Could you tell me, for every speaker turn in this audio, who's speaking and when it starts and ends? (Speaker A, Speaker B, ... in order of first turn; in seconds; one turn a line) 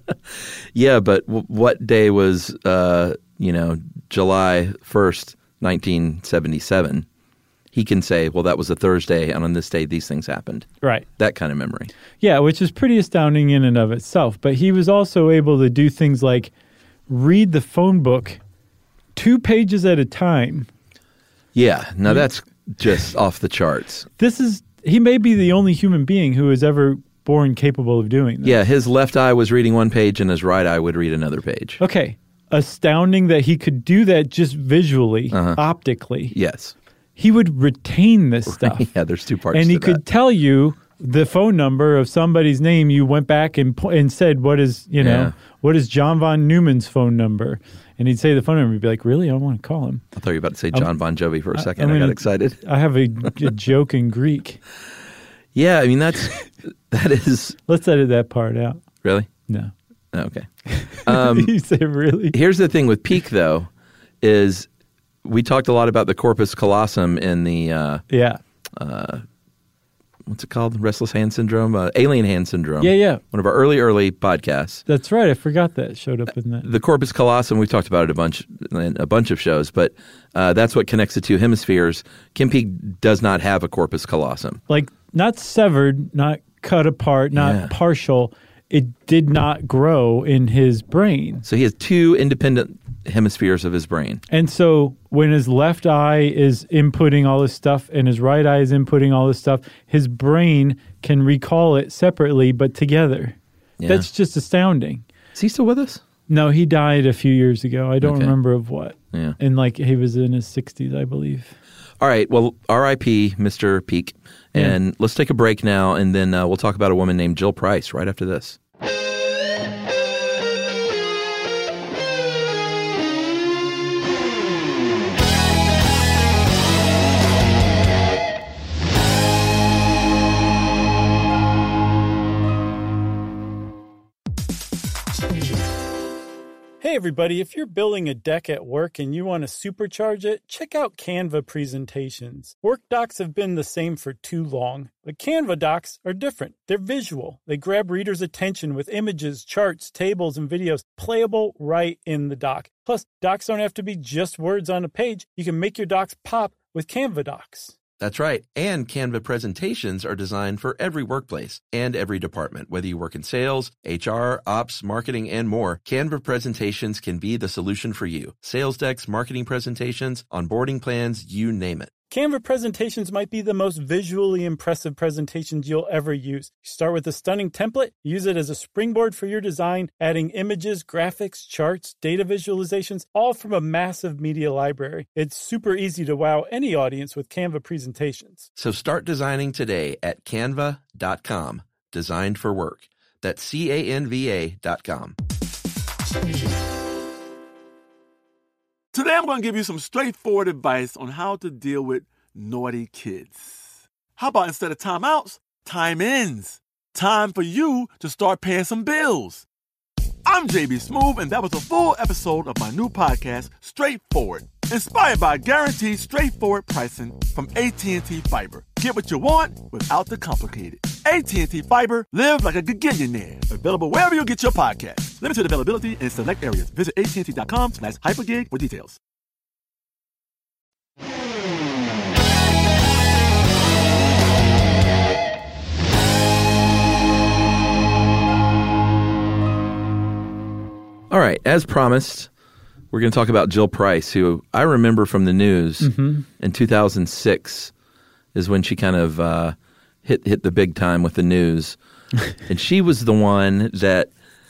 Speaker A: 0.3-7.1
Speaker A: 7.7-11.9
Speaker B: 10.8-11.1
Speaker B: 12.2-16.5
Speaker B: 17.1-18.4
Speaker B: 19.1-20.7
Speaker A: 21.6-24.1
Speaker B: 24.2-28.6
Speaker A: 28.4-31.8
Speaker B: 31.8-36.4
Speaker A: 35.3-35.6
Speaker A: 36.3-36.7
Speaker B: 37.2-38.9
Speaker A: 38.5-40.0
Speaker B: 39.5-50.0
Speaker A: 45.0-45.3
Speaker A: 50.1-52.6
Speaker B: 51.5-54.6
Speaker A: 55.5-57.6
Speaker B: 57.7-58.8
Speaker A: 59.0-59.3
Speaker A: 60.1-60.5
Speaker B: 60.7-62.4
Speaker A: 61.0-61.5
Speaker A: 62.3-63.7
Speaker A: 64.2-64.7
Speaker A: 65.2-68.0
Speaker B: 68.1-68.4
Speaker A: 68.8-69.2
Speaker A: 70.3-74.8
Speaker B: 72.8-73.2
Speaker B: 74.9-76.7
Speaker A: 76.6-84.6
Speaker B: 84.7-91.4
Speaker A: 87.3-87.7
Speaker A: 91.4-94.2
Speaker B: 94.3-105.0
Speaker A: 103.8-104.1
Speaker A: 105.3-106.0
Speaker B: 106.3-111.5
Speaker A: 108.0-108.3
Speaker A: 112.0-118.6
Speaker B: 136.8-157.8
Speaker A: 158.0-171.9
Speaker B: 172.1-188.5
Speaker A: 188.6-195.2
Speaker C: 198.9-209.4
Speaker C: 210.2-229.0
Speaker A: 241.1-242.3
Speaker A: 242.9-247.7
Speaker B: 245.8-246.2
Speaker A: 248.3-251.8
Speaker A: 252.5-254.1